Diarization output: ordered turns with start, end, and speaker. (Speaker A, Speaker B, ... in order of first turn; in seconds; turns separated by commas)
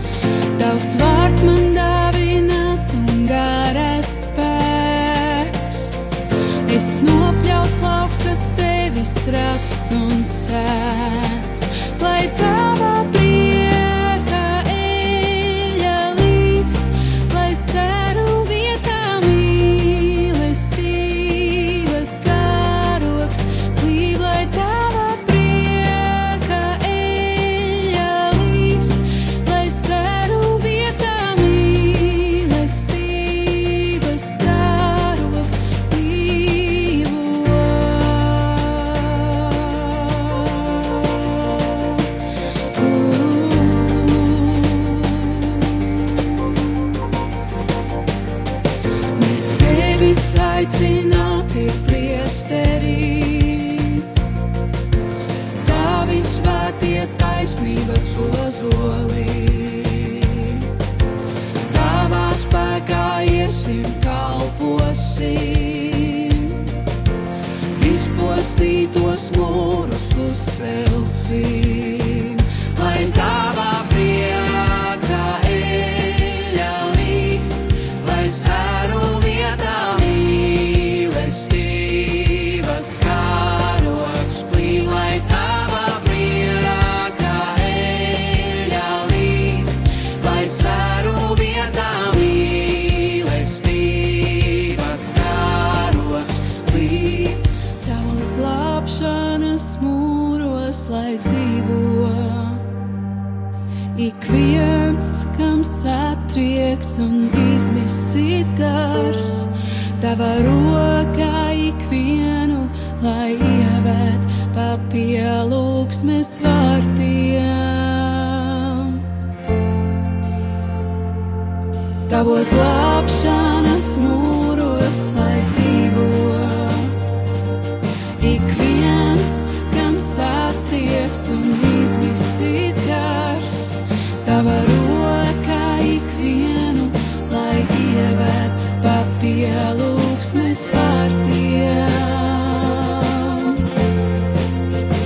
Speaker A: 0.6-6.0, Speaker A: 6.7-42.1, Speaker A: 42.7-46.9, Speaker A: 49.2-54.1, Speaker A: 55.6-60.7, Speaker A: 61.7-66.8, Speaker A: 67.8-102.7, Speaker A: 103.9-119.0, Speaker A: 122.1-127.0, Speaker A: 128.2-143.6